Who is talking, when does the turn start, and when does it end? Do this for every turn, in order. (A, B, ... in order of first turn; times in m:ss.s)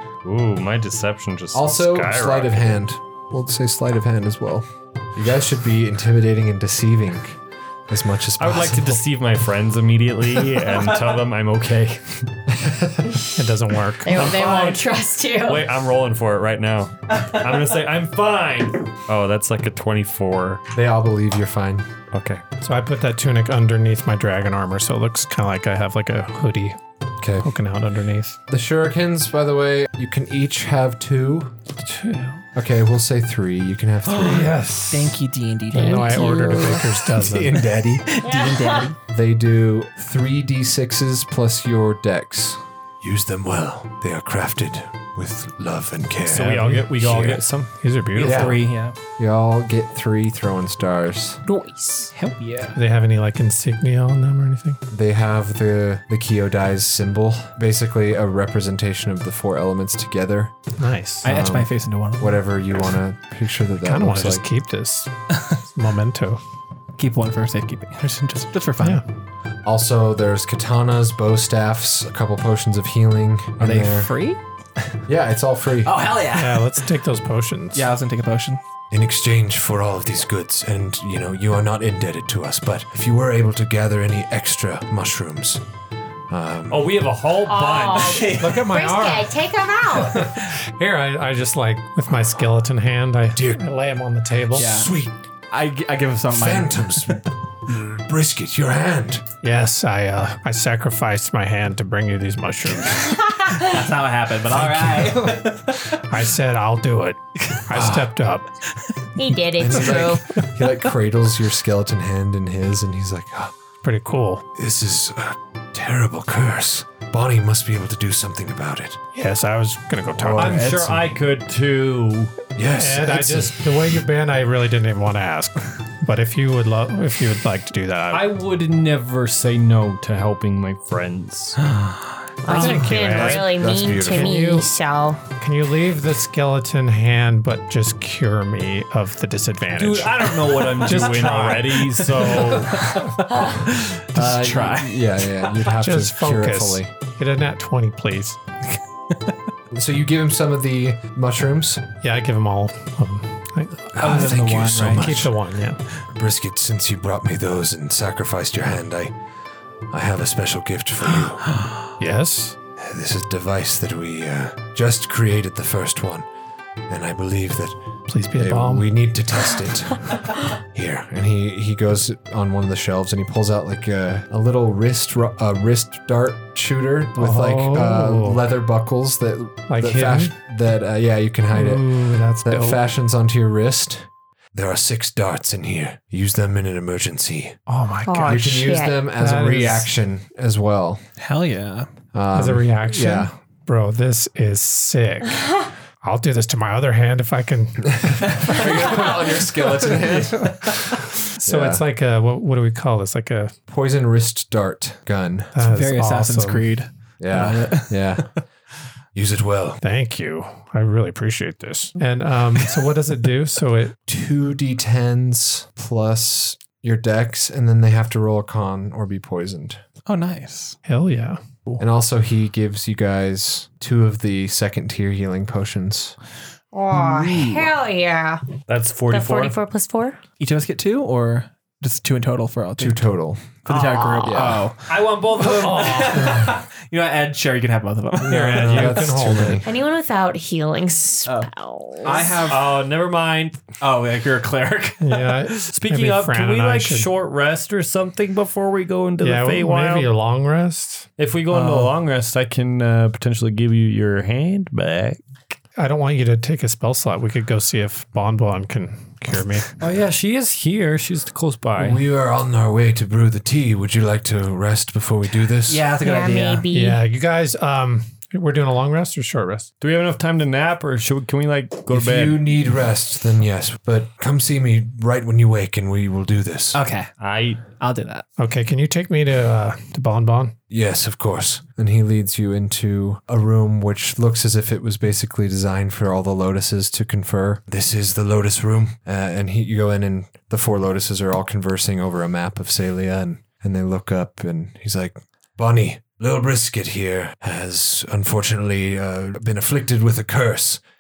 0:00.2-0:02.8 A
0:01.5-0:09.0 B
0:08.4-0:12.3 A
0:12.5-0:13.1 B
0:13.4-0:14.2 C
0:14.0-0:15.7 D
0:14.1-0:20.6 A
0:20.7-0:21.9 B
0:22.1-0:22.4 A
0:22.6-0:26.8 C
0:27.2-0:27.5 B
0:27.4-0:28.4 C
0:28.5-0:31.6 B
0:31.8-0:32.4 C
0:32.6-0:34.5 B
0:34.1-0:37.2 E
0:34.2-0:35.2 C
0:35.7-0:37.6 C
0:35.8-0:36.8 D
0:37.0-0:38.2 B
0:38.1-0:39.0 E
0:38.2-0:38.9 D
0:39.1-0:47.4 B
0:46.3-0:48.5 A
0:46.4-0:48.6 C
0:48.2-0:48.6 B
0:48.2-0:49.0 E
0:49.2-0:51.4 B
0:51.4-0:52.1 D
0:52.1-0:52.8 E
0:52.8-0:54.8 C
0:54.9-1:00.6 B
1:00.8-1:01.3 C
1:01.2-1:02.4 E
1:01.2-1:04.4 B
1:03.8-1:06.4 C
1:07.0-1:09.0 E
1:09.6-1:14.1 B
1:13.6-1:14.4 E
1:15.1-1:16.0 B
1:15.8-1:16.8 E
1:16.3-1:17.9 C
1:17.7-1:18.6 E
1:18.9-1:25.6 B
1:26.3-1:27.0 B
1:26.7-1:28.4 A
1:27.5-1:30.3 D
1:27.9-1:28.6 E
1:28.3-1:29.4 C
1:30.0-1:34.8 C
1:33.4-1:33.6 B
1:34.5-1:34.9 E
1:34.6-1:35.1 B
1:35.5-1:37.2 E
1:36.3-1:39.2 B
1:39.4-1:43.4 C
1:43.2-1:43.7 D
1:43.6-1:46.0 E
1:44.6-1:45.1 C
1:44.7-1:45.1 B
1:45.9-1:48.5 C
1:47.7-1:48.1 B
1:49.2-1:50.2 D
1:49.6-1:53.6 B
1:53.8-1:54.4 C
1:54.6-1:59.0 B
1:59.2-2:01.0 C
2:00.1-2:01.0 B
2:00.3-2:02.4 A
2:02.6-2:03.7 B
2:02.7-2:08.3 C
2:08.1-2:11.6 A
2:12.4-2:15.2 D
2:12.4-2:14.7 C
2:12.6-2:12.8 A
2:13.2-2:14.4 B
2:15.4-2:22.0 C
2:19.8-2:23.0 A
2:22.2-2:25.6 E
2:24.1-2:26.9 B
2:25.7-2:28.4 C
2:29.1-2:29.4 E
2:29.7-2:31.9 B
2:32.0-2:33.9 C
2:33.9-2:35.4 B
2:34.0-2:35.3 E
2:34.9-2:35.8 C
2:36.1-2:39.2 B
2:39.9-2:41.6 B
2:42.0-2:42.6 C
2:42.8-2:46.3 B
2:46.9-2:47.8 B
2:48.1-2:48.9 C
2:48.4-3:07.6 B
2:57.2-2:58.4 C
2:59.7-3:00.3 C
3:01.5-3:02.8 C
3:07.7-3:08.5 C
3:08.0-3:09.0 D
3:08.2-3:11.0 B
3:09.1-3:09.9 C
3:11.2-3:11.9 E
3:12.1-3:13.3 B
3:12.3-3:19.0 C
3:18.4-3:21.8 B
3:19.9-3:23.6 C
3:23.7-3:25.6 B
3:25.6-3:26.8 C
3:25.6-3:28.4 E
3:27.2-3:28.3 B
3:29.2-3:29.8 B
3:29.8-3:34.0 C
3:34.1-3:39.8 B
3:40.1-3:40.8 E
3:40.8-3:41.4 C
3:41.8-3:46.2 B
3:46.7-3:48.5 D
3:46.9-3:47.7 E
3:48.7-3:49.6 A
3:49.1-3:50.2 D
3:50.4-3:53.1 E
3:52.8-3:53.6 B
3:53.6-3:59.0 E
3:53.7-3:54.4 D
3:54.2-3:54.7 B
3:54.9-3:56.4 A
3:55.5-3:56.5 C
3:58.2-3:59.7 B
3:58.3-3:59.6 C
3:59.6-4:02.4 D
4:02.0-4:02.8 E
4:02.4-4:03.6 A
4:03.8-4:05.5 E
4:05.0-4:07.1 C
4:05.7-4:10.1 A
4:09.2-4:11.1 C
4:11.2-4:15.2 A
4:11.5-4:12.0 E
4:15.8-4:19.7 C
4:19.8-4:22.0 A
4:21.8-4:25.8 B
4:25.7-4:26.7 E
4:26.0-4:27.0 D
4:26.7-4:29.7 C
4:29.8-4:32.4 A
4:31.9-4:36.8 B
4:36.7-4:37.1 E
4:37.2-4:37.6 A
4:37.7-4:38.3 E
4:38.4-4:40.6 C
4:40.7-5:00.8 B